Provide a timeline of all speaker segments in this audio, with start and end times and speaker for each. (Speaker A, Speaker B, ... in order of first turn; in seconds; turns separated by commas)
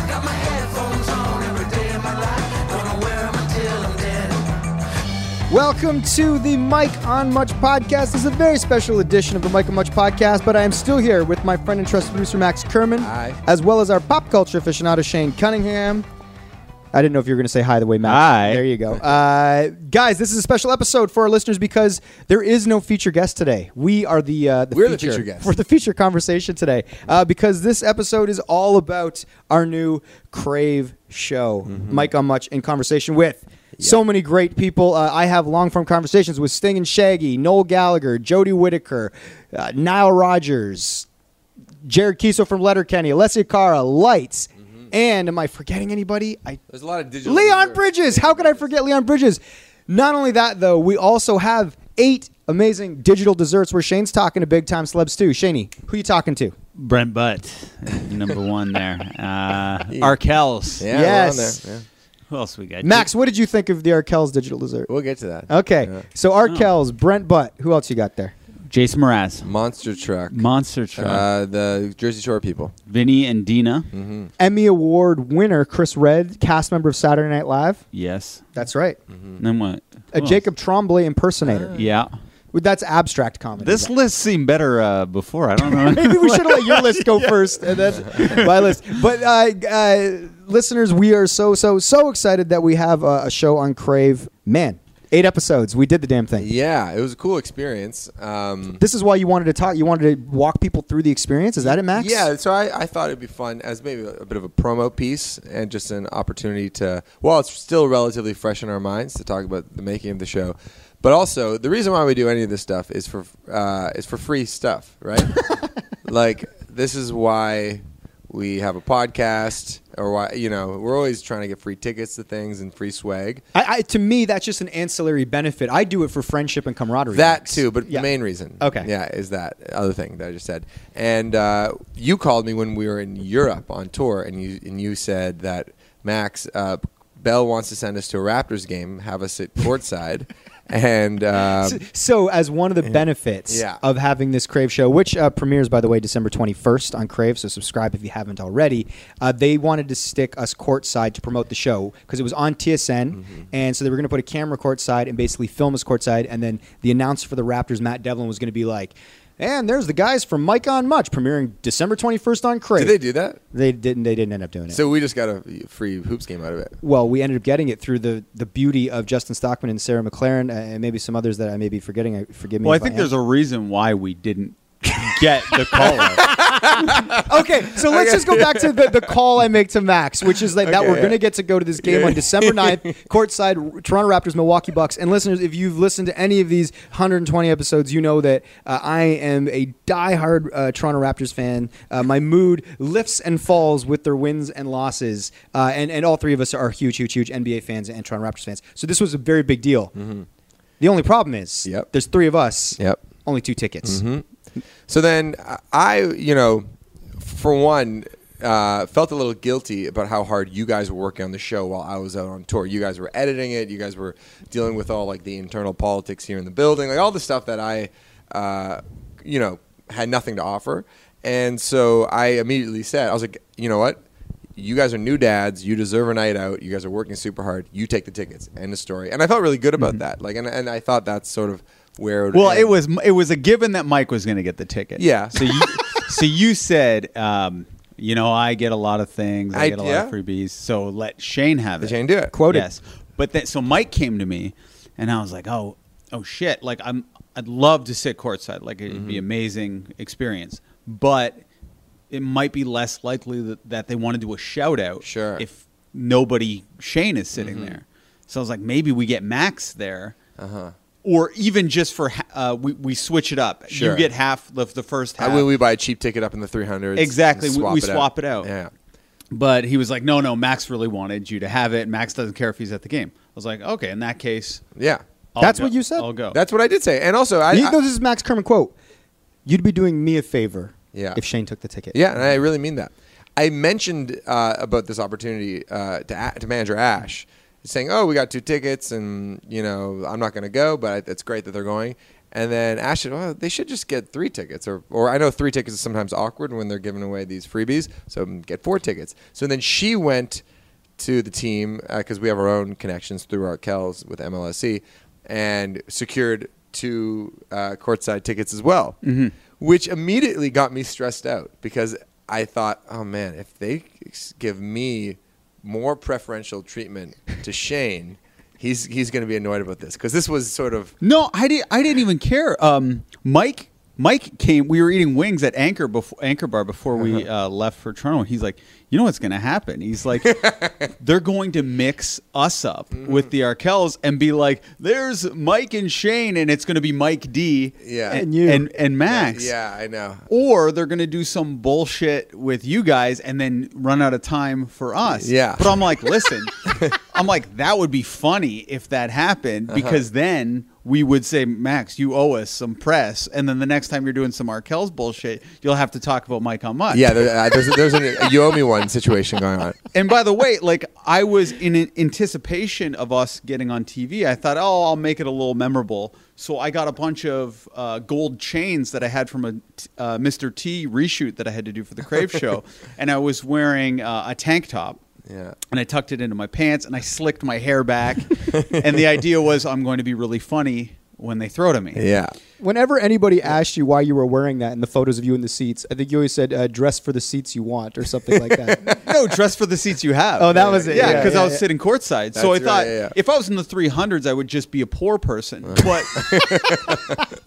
Speaker A: 0.6-1.6, Speaker B: 5.5-16.1, Speaker C: 13.0-13.4, Speaker B: 16.9-41.1, Speaker A: 18.0-18.6, Speaker C: 24.7-25.5, Speaker C: 31.7-32.1, Speaker B: 41.8-46.6, Speaker C: 46.7-48.6, Speaker B: 47.2-56.5, Speaker A: 56.8-60.9, Speaker C: 59.9-60.1, Speaker C: 60.8-61.8, Speaker B: 60.9-61.6, Speaker A: 62.3-63.1, Speaker B: 62.8-64.9, Speaker C: 64.9-66.0, Speaker B: 65.5-68.3, Speaker A: 68.7-69.5, Speaker C: 69.4-70.4, Speaker A: 70.3-71.2, Speaker C: 71.0-72.7, Speaker A: 72.9-73.9, Speaker C: 73.9-74.3, Speaker B: 74.4-77.8, Speaker A: 77.9-78.5, Speaker B: 78.5-79.0, Speaker C: 79.1-79.4, Speaker A: 79.4-80.4, Speaker B: 80.1-81.7, Speaker A: 81.7-82.1, Speaker B: 82.5-83.9, Speaker A: 83.6-88.7, Speaker B: 85.7-96.5, Speaker C: 96.4-98.8, Speaker B: 98.8-102.3, Speaker C: 101.6-115.3, Speaker C: 116.0-123.4, Speaker B: 123.5-128.9, Speaker C: 127.1-141.8, Speaker B: 141.6-163.0, Speaker C: 143.5-143.8, Speaker C: 162.8-163.4, Speaker B: 163.5-164.8, Speaker C: 164.7-166.8, Speaker B: 166.8-173.1, Speaker A: 172.6-176.3, Speaker C: 176.0-179.1, Speaker B: 177.1-199.9, Speaker C: 180.3-181.2, Speaker C: 181.8-182.8, Speaker C: 199.9-200.2, Speaker B: 200.8-204.0, Speaker C: 203.8-204.2, Speaker C: 204.9-206.6, Speaker C: 207.2-224.0, Speaker C: 224.6-232.8, Speaker A: 232.3-251.4, Speaker C: 235.0-235.9, Speaker C: 239.5-240.1, Speaker C: 241.8-242.3, Speaker B: 242.3-242.7, Speaker C: 248.9-249.2, Speaker A: 252.1-260.2, Speaker C: 255.0-255.4, Speaker C: 257.4-257.8, Speaker C: 260.4-260.7, Speaker A: 261.0-265.5, Speaker C: 263.7-264.1, Speaker C: 265.2-268.7, Speaker A: 266.9-268.5, Speaker A: 269.3-274.6, Speaker C: 274.8-275.0, Speaker A: 275.4-276.4, Speaker B: 275.4-276.1, Speaker C: 276.3-277.8, Speaker B: 277.5-278.7, Speaker B: 279.4-281.9, Speaker C: 280.9-281.2, Speaker C: 281.9-300.4, Speaker C: 301.0-309.0, Speaker A: 309.0-309.3, Speaker C: 309.6-320.9, Speaker A: 321.0-339.5, Speaker C: 330.4-330.8, Speaker C: 333.0-333.3, Speaker C: 337.8-338.2, Speaker B: 338.1-338.6, Speaker C: 339.1-340.2, Speaker A: 340.3-357.1, Speaker C: 345.1-345.9, Speaker C: 349.7-350.0, Speaker C: 356.9-359.8, Speaker A: 359.9-375.0, Speaker C: 375.3-375.6, Speaker A: 375.7-382.1, Speaker C: 378.5-378.8, Speaker C: 381.9-382.4, Speaker B: 382.6-389.0, Speaker A: 388.8-396.7, Speaker B: 390.4-391.6, Speaker C: 390.5-391.4, Speaker C: 392.3-393.1, Speaker C: 395.8-397.2